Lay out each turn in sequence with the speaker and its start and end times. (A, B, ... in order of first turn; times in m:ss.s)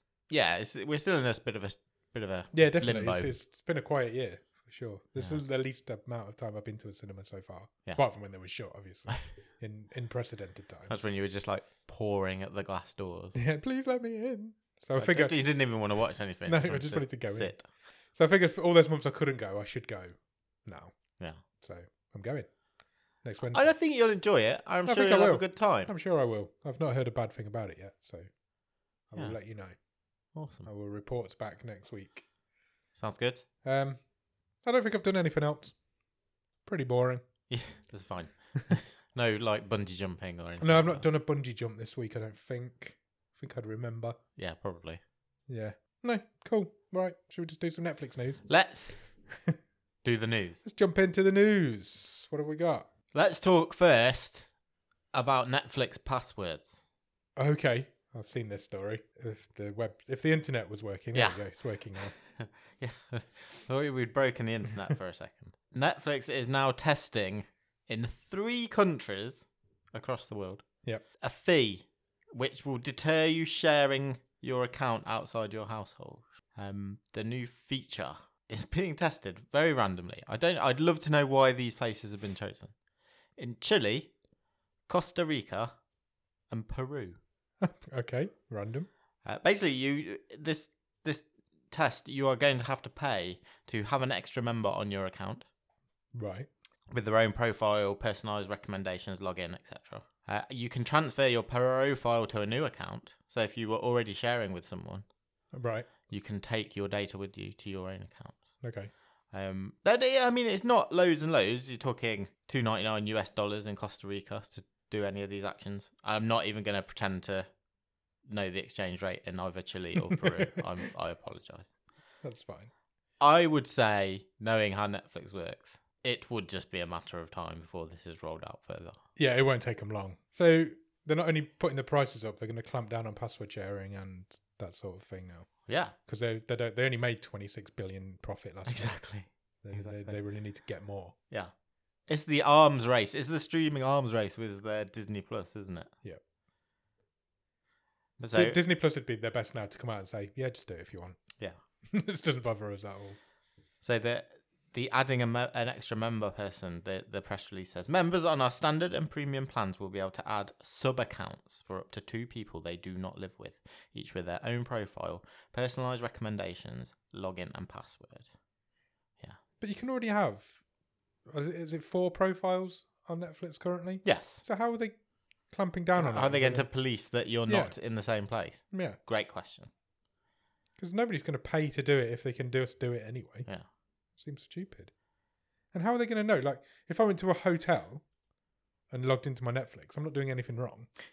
0:00.3-0:03.3 A
0:02.5-0:11.0 B
0:05.1-0:05.4 A
0:10.9-0:13.4 A
0:13.3-0:15.4 B
0:15.0-0:17.6 A
0:16.4-0:22.5 B
0:23.2-0:23.7 B
0:23.5-0:25.9 A
0:24.8-0:28.3 B
0:29.1-0:29.7 B
0:30.3-0:30.7 A
0:30.6-0:32.3 B
0:33.0-0:33.4 A
0:33.6-0:34.0 B
0:34.6-0:35.8 B
0:36.6-0:37.2 B
0:37.5-0:41.0 A
0:40.6-0:44.2 B
0:44.4-0:45.0 A
0:45.5-0:48.5 B
0:48.5-0:49.0 A
0:50.0-0:50.6 A
0:50.6-0:52.9 B
0:53.1-0:54.5 A
0:55.1-0:56.8 A
0:57.4-1:02.1 B
1:01.1-1:01.4 A
1:02.0-1:10.6 A
1:11.2-1:22.7 A
1:23.4-1:24.1 A
1:24.9-1:25.8 A
1:26.5-1:27.2 A
1:27.6-1:28.9 B
1:29.2-1:35.4 A
1:36.1-1:36.5 B
1:36.9-1:45.0 A
1:45.5-1:45.9 B
1:46.1-1:48.4 A
1:48.6-1:48.9 B
1:49.3-1:57.5 A
1:58.3-2:01.7 A
2:00.1-2:00.4 B
2:02.2-2:02.7 B
2:03.2-2:09.0 A
2:09.2-2:19.0 B
2:15.6-2:15.9 A
2:18.6-2:20.2 A
2:19.6-2:21.1 B
2:22.1-2:25.9 A
2:28.2-2:28.6 A
2:28.3-2:31.2 B
2:31.9-2:33.2 B
2:33.8-2:48.3 A
2:49.6-2:50.5 B
2:51.3-2:56.7 B
2:54.0-2:54.4 A
2:55.9-2:59.7 A
2:57.5-2:57.8 B
2:58.7-2:59.0 B
3:00.8-3:03.5 B
3:04.1-3:04.9 B
3:05.7-3:08.0 B
3:08.9-3:10.9 B